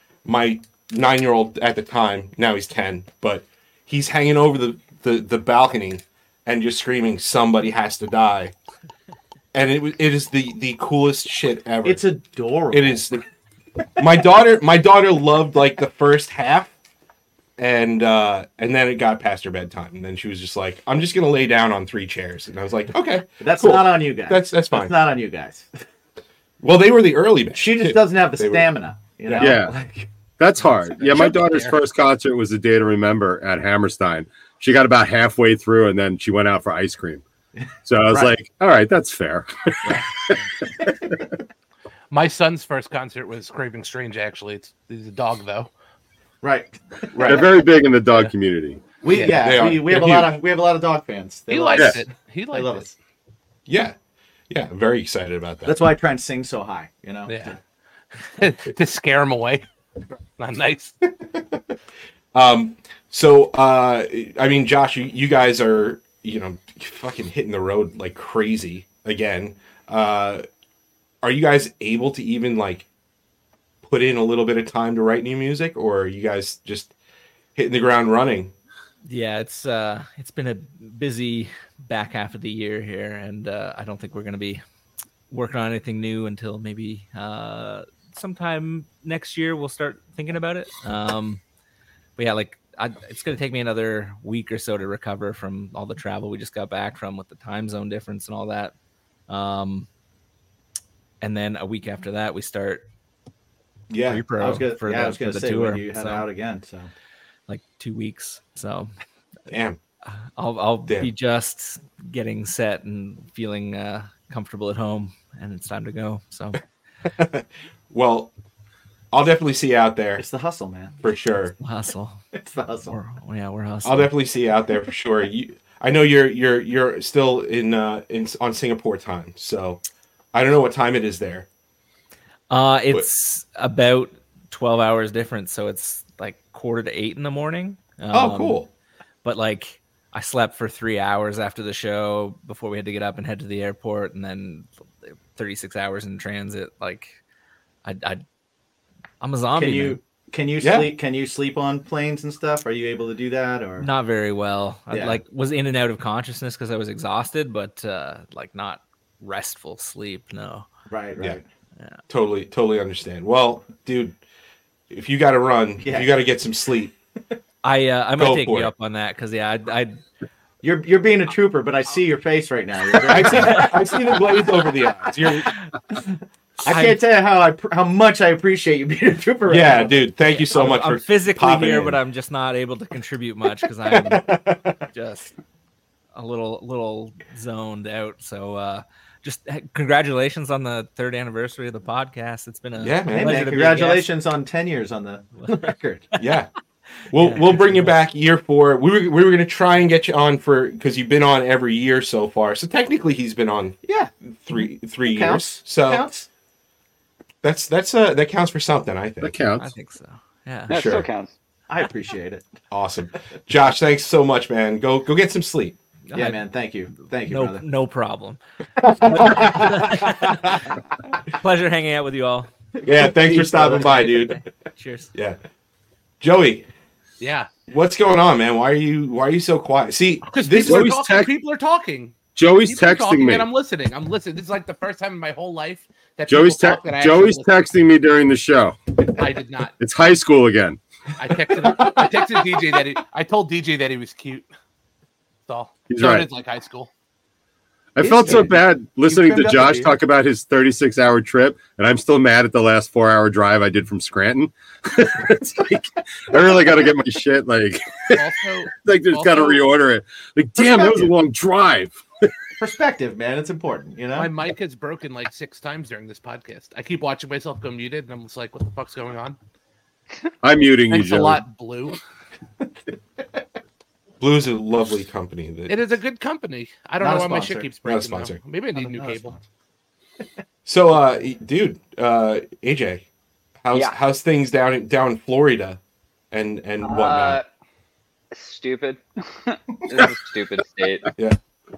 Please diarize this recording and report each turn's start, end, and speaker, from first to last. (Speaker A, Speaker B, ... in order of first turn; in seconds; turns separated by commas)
Speaker A: 0.2-8.5, Speaker A: 9.5-12.0, Speaker B: 11.8-13.0, Speaker A: 12.7-13.2, Speaker A: 14.0-16.7, Speaker A: 17.6-24.9, Speaker B: 23.4-25.7, Speaker A: 26.6-28.7, Speaker B: 27.5-30.1, Speaker A: 29.3-29.6, Speaker C: 29.4-29.7, Speaker C: 30.4-37.2, Speaker D: 31.0-31.7, Speaker B: 37.6-38.3, Speaker C: 37.9-40.1, Speaker D: 42.1-45.7, Speaker B: 46.4-47.5, Speaker C: 47.3-48.8, Speaker B: 49.0-52.9, Speaker D: 49.1-49.5, Speaker A: 49.2-50.4, Speaker D: 51.5-52.9, Speaker A: 53.7-54.0, Speaker A: 54.5-55.9, Speaker B: 55.6-57.6, Speaker D: 57.3-57.6, Speaker D: 58.2-59.7, Speaker D: 60.4-61.0, Speaker A: 62.3-70.4, Speaker A: 71.2-72.9, Speaker A: 73.8-76.9, Speaker A: 77.6-78.5, Speaker E: 79.0-84.6, Speaker E: 85.3-91.4, Speaker E: 92.2-98.7, Speaker E: 99.3-99.9, Speaker E: 101.2-102.9, Speaker A: 103.9-104.2, Speaker E: 104.1-106.3, Speaker B: 104.3-106.9, Speaker E: 107.5-108.9, Speaker A: 109.5-109.8, Speaker E: 110.1-116.6, Speaker A: 117.2-118.3, Speaker A: 119.1-120.2, Speaker B: 120.2-120.9, Speaker A: 121.0-121.5, Speaker E: 121.6-122.2, Speaker B: 122.3-123.0, Speaker E: 122.9-124.1, Speaker A: 123.8-129.8, Speaker A: 130.3-131.5, Speaker E: 132.5-138.6, Speaker A: 138.1-138.7, Speaker E: 139.2-147.2, Speaker E: 147.8-148.2, Speaker E: 149.2-150.0, Speaker B: 149.6-153.9, Speaker A: 150.6-150.9, Speaker E: 153.8-160.7, Speaker B: 154.9-155.2, Speaker B: 160.9-161.4, Speaker A: 162.1-164.2, Speaker A: 164.9-166.9, Speaker B: 165.8-166.2, Speaker E: 167.6-170.0, Speaker A: 168.2-168.7, Speaker B: 170.6-174.2, Speaker A: 173.1-175.5, Speaker B: 176.6-180.1, Speaker E: 176.7-177.0, Speaker A: 179.5-182.0, Speaker E: 180.3-185.3, Speaker A: 183.9-184.8, Speaker E: 186.2-194.1, Speaker A: 192.8-193.5, Speaker B: 193.1-196.1, Speaker E: 195.4-196.4, Speaker A: 196.2-196.5, Speaker E: 197.1-198.0, Speaker A: 197.1-203.8, Speaker B: 203.8-204.1, Speaker A: 204.3-206.1, Speaker B: 205.1-206.3, Speaker A: 207.4-209.4, Speaker C: 209.2-209.7, Speaker E: 209.6-210.8, Speaker A: 210.7-211.1, Speaker F: 210.7-211.3, Speaker B: 211.7-212.5, Speaker A: 212.7-215.8, Speaker E: 216.1-216.4, Speaker B: 216.1-217.7, Speaker E: 217.3-218.4, Speaker A: 218.8-220.0, Speaker E: 219.1-220.6, Speaker E: 221.3-222.5, Speaker B: 222.8-224.1, Speaker A: 222.8-224.4, Speaker E: 223.6-225.1, Speaker A: 226.2-226.7, Speaker D: 227.2-227.5, Speaker A: 227.7-231.0, Speaker D: 230.2-237.5, Speaker C: 230.7-231.3, Speaker C: 232.4-233.5, Speaker C: 236.3-238.8, Speaker D: 239.2-239.7, Speaker C: 239.8-240.8, Speaker D: 241.2-244.5, Speaker D: 245.5-246.9, Speaker C: 245.9-246.3, Speaker C: 248.0-262.3, Speaker B: 248.0-250.0, Speaker D: 258.1-259.7, Speaker B: 262.6-264.4, Speaker D: 264.2-269.4, Speaker C: 270.4-271.4, Speaker D: 270.9-272.0, Speaker A: 274.2-276.0, Speaker D: 275.7-279.4, Speaker B: 277.0-277.7, Speaker A: 277.8-278.4, Speaker B: 278.8-279.4, Speaker A: 280.6-283.0, Speaker A: 283.6-285.8, Speaker F: 283.7-284.0, Speaker A: 286.3-287.4, Speaker F: 286.8-287.4, Speaker F: 288.3-291.1